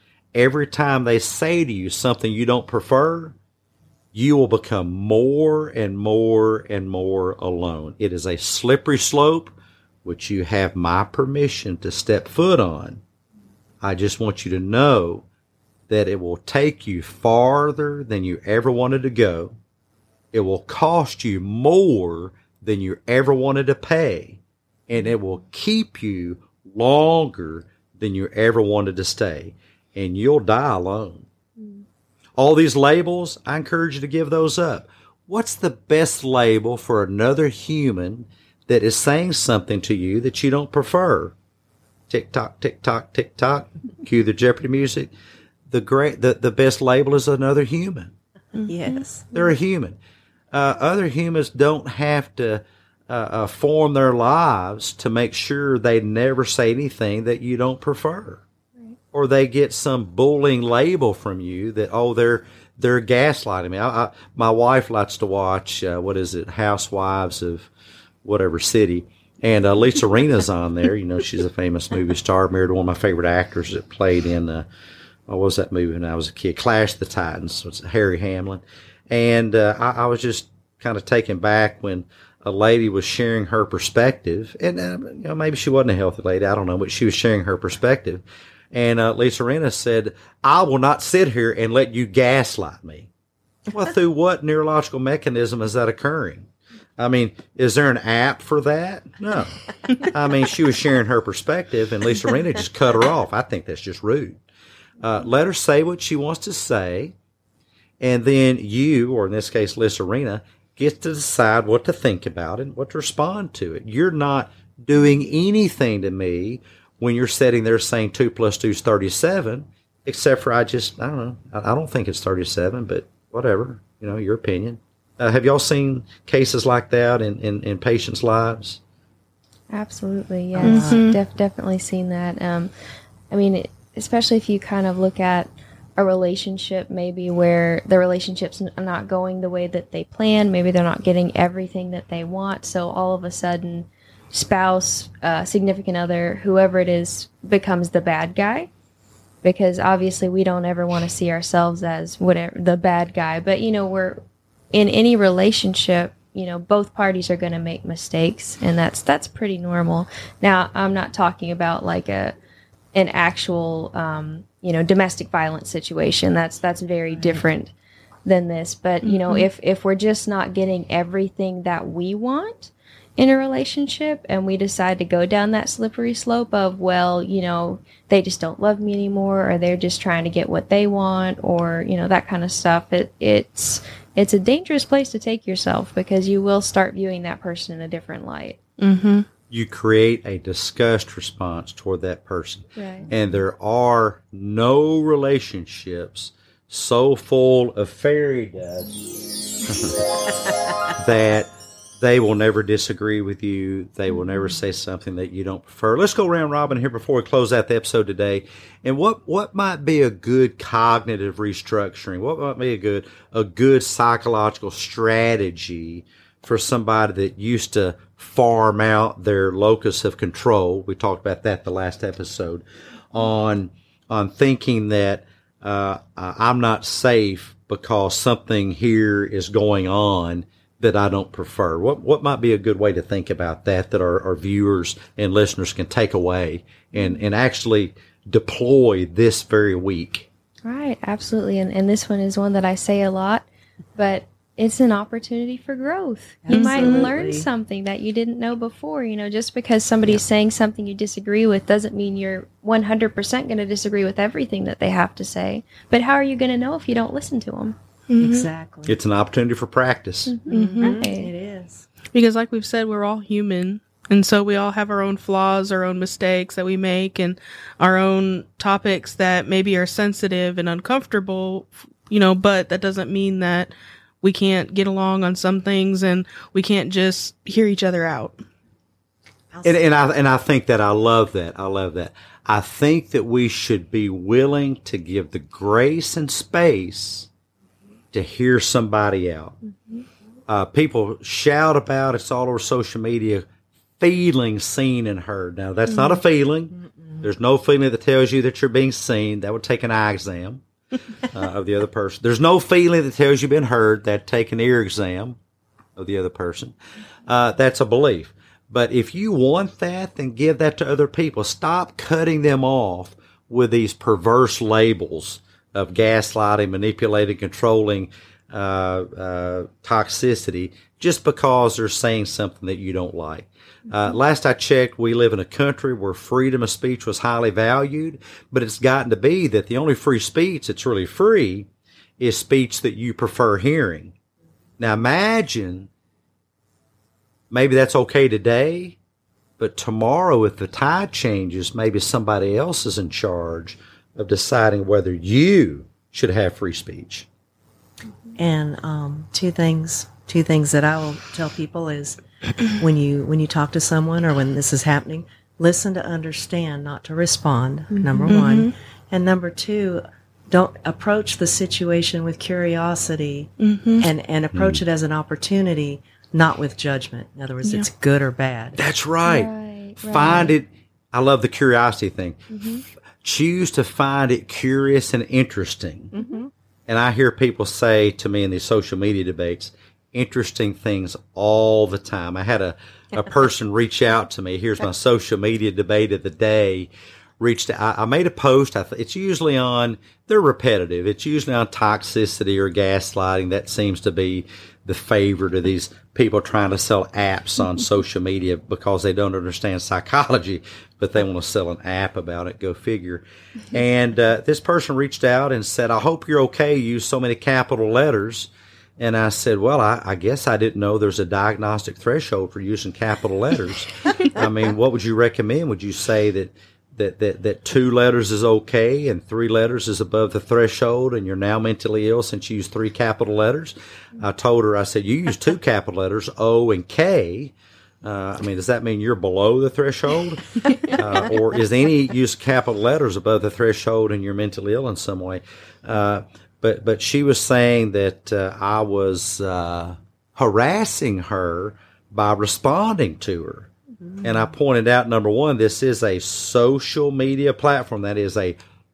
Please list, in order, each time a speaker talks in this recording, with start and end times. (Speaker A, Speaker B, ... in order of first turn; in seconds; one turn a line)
Speaker A: 0.3-3.4
Speaker A: 4.1-13.0
Speaker A: 13.8-15.2
Speaker A: 15.9-19.5
Speaker A: 20.3-31.2
Speaker B: 31.6-31.8
Speaker A: 32.4-41.3
Speaker A: 42.1-45.1
Speaker A: 45.7-48.1
Speaker C: 48.5-49.0
Speaker D: 48.6-49.3
Speaker A: 49.3-50.0
Speaker A: 50.5-58.4
Speaker A: 59.1-67.7
Speaker A: 68.2-74.7
Speaker A: 75.3-93.1
Speaker A: 93.7-104.4
Speaker A: 105.0-107.1
Speaker A: 108.0-128.8
Speaker B: 129.7-132.7
Speaker D: 130.5-131.0
Speaker C: 130.6-131.2
Speaker B: 133.3-148.7
Speaker B: 149.4-154.2
Speaker B: 154.7-162.3
Speaker B: 162.9-167.7
Speaker D: 167.1-167.4
Speaker B: 168.2-188.6
Speaker C: 169.0-169.5
Speaker C: 188.8-189.2
Speaker A: 189.5-199.0
Speaker B: 192.8-193.1
Speaker A: 199.7-199.9
Speaker A: 200.9-240.3
Speaker B: 236.9-237.2
Speaker B: 240.6-257.8
Speaker D: 246.4-247.5
Speaker C: 246.5-247.1
Speaker C: 258.1-258.5
Speaker D: 258.2-259.0
Speaker A: 258.9-260.4
Speaker B: 260.3-261.3
Speaker D: 260.5-261.9
Speaker C: 260.5-261.1
Speaker C: 262.1-278.4
Speaker D: 279.5-279.8
Speaker A: 279.6-287.3
Speaker A: 288.1-289.5
Speaker A: 290.5-293.5
Speaker A: 294.0-300.6
Speaker A: 301.2-305.4
Speaker A: 305.9-306.8
Speaker A: 307.3-331.7
Speaker A: 332.2-334.1
Speaker A: 334.8-335.9
Speaker A: 337.5-339.0
Speaker A: 339.6-347.3
Speaker D: 348.4-368.8
Speaker B: 357.9-358.4
Speaker C: 358.3-358.7
Speaker C: 363.6-364.1
Speaker A: 364.5-364.8
Speaker A: 368.8-369.5
Speaker B: 369.2-370.5
Speaker A: 370.0-372.4
Speaker D: 370.2-370.5
Speaker B: 372.5-372.8
Speaker A: 373.2-376.1
Speaker D: 376.1-376.5
Speaker A: 376.9-386.9
Speaker A: 387.4-443.7
Speaker A: 444.2-448.6